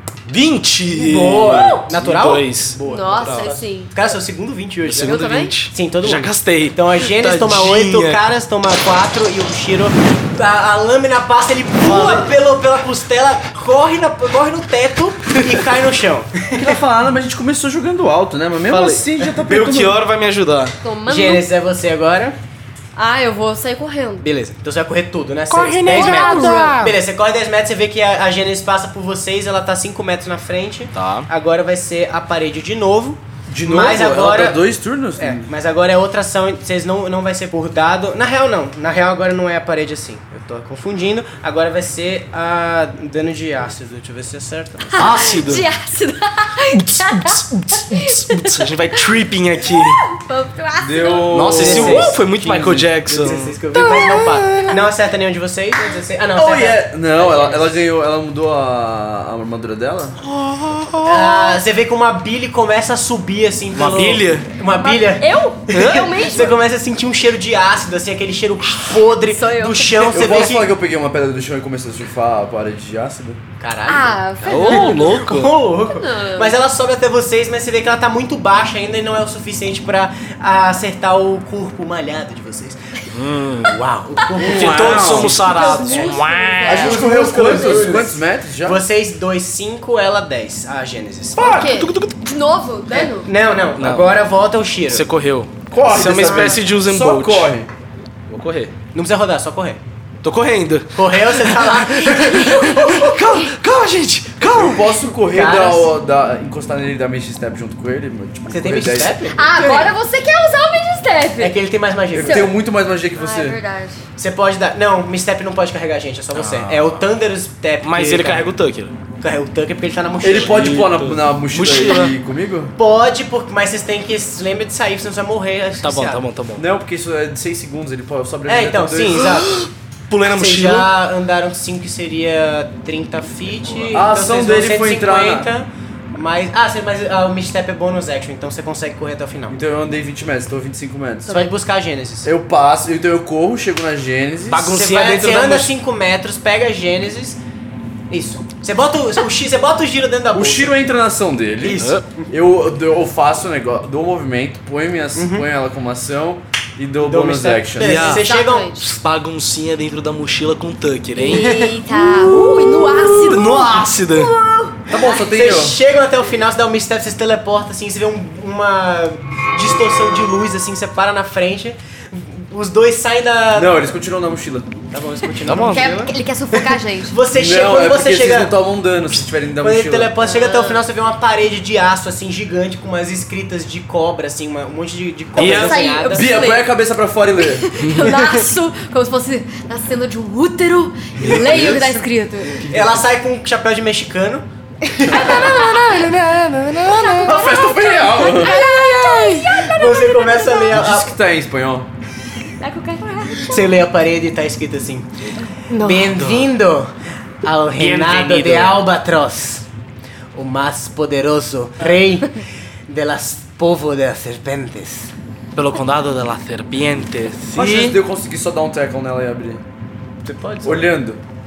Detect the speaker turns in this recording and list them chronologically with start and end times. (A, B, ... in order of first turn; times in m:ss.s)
0:00.3-0:03.5 A
0:00.9-0:16.8 B
0:02.8-0:04.0 C
0:04.8-0:08.2 A
0:05.0-0:05.5 C
0:11.8-0:12.3 A
0:16.6-0:20.0 D
0:18.7-0:20.8 A
0:20.8-0:21.4 C
0:21.1-0:22.4 B
0:23.0-0:24.3 C
0:24.2-0:34.6 B
0:25.5-0:26.8 A
0:25.8-0:26.9 C
0:30.9-0:31.3 A
0:33.5-0:35.5 D
0:35.2-0:45.2 B
0:45.0-0:48.7 C
0:45.0-0:45.7 A
0:46.8-0:50.0 A
0:49.7-0:51.9 C
0:50.8-0:52.9 D
0:51.3-0:53.6 A
0:51.5-0:57.7 B
0:53.7-0:54.8 C
0:56.4-1:00.2 D
1:00.2-1:01.5 A
1:01.0-1:10.7 B
1:03.7-1:04.5 A
1:04.7-1:06.6 C
1:05.7-1:06.3 A
1:09.3-1:10.2 C
1:10.1-1:13.4 D
1:13.6-1:22.8 B
1:13.9-1:15.2 C
1:14.4-1:15.6 A
1:15.9-1:16.6 C
1:23.1-1:23.8 A
1:23.6-1:31.5 B
1:24.3-1:28.0 C
1:24.4-1:25.4 D
1:24.4-1:26.9 A
1:26.6-1:28.8 D
1:31.4-1:31.7 D
1:31.4-1:33.3 C
1:31.5-1:32.2 A
1:32.9-1:35.0 B
1:33.8-1:34.2 A
1:34.9-1:37.5 A
1:35.7-1:37.7 D
1:35.9-1:36.6 B
1:38.3-1:38.7 A
1:38.9-1:39.8 B
1:40.2-1:45.0 A
1:41.0-1:42.7 B
1:42.0-1:43.5 C
1:44.4-1:49.2 D
1:45.3-1:45.9 B
1:48.5-1:49.9 B
1:49.3-1:51.6 C
1:51.4-1:52.5 B
1:52.1-1:53.6 D
1:52.2-1:52.5 C
1:53.2-1:54.0 C
1:54.2-1:58.5 B
1:56.3-1:57.1 A
1:57.8-1:58.9 A
1:59.2-2:00.9 B
2:00.2-2:02.7 D
2:00.3-2:02.1 A
2:02.8-2:06.2 B
2:05.8-2:06.7 A
2:06.6-2:09.4 D
2:08.5-2:09.6 B
2:09.2-2:10.9 A
2:10.3-2:19.6 B
2:13.9-2:15.5 D
2:19.5-2:21.4 D
2:21.3-2:22.3 B
2:22.2-2:24.7 D
2:24.5-2:25.7 A
2:24.7-2:27.4 B
2:28.1-2:30.8 B
2:30.3-2:38.2 D
2:31.6-2:32.0 A
2:35.2-2:35.5 B
2:37.0-2:38.8 B
2:37.8-2:44.3 A
2:38.1-2:38.8 C
2:41.2-2:45.2 C
2:41.3-2:41.7 B
2:44.9-2:45.8 D
2:45.1-2:53.9 B
2:53.5-2:54.8 D
2:54.9-2:56.1 B
2:55.4-2:56.1 A
2:55.7-2:57.2 C
2:57.0-2:58.5 B
2:57.3-3:00.1 D
2:59.6-3:06.4 B
3:00.2-3:00.8 C
3:05.4-3:05.8 A
3:05.4-3:06.7 C
3:06.1-3:07.7 D
3:07.4-3:12.7 C
3:08.0-3:08.4 B
3:11.2-3:12.0 D
3:11.2-3:11.8 A
3:12.5-3:13.0 D
3:12.7-3:16.2 B
3:14.9-3:20.8 C
3:15.1-3:15.4 D
3:17.1-3:18.6 D
3:18.4-3:21.1 B
3:20.7-3:21.9 D
3:22.6-3:23.7 C
3:23.4-3:25.1 B
3:25.7-3:26.2 C
3:25.7-3:26.9 B
3:26.2-3:26.5 A
3:27.4-3:29.7 B
3:27.8-3:28.8 A
3:30.3-3:35.1 B
3:35.6-3:38.0 A
3:37.5-3:39.6 D
3:40.2-3:40.8 B
3:40.6-3:41.2 D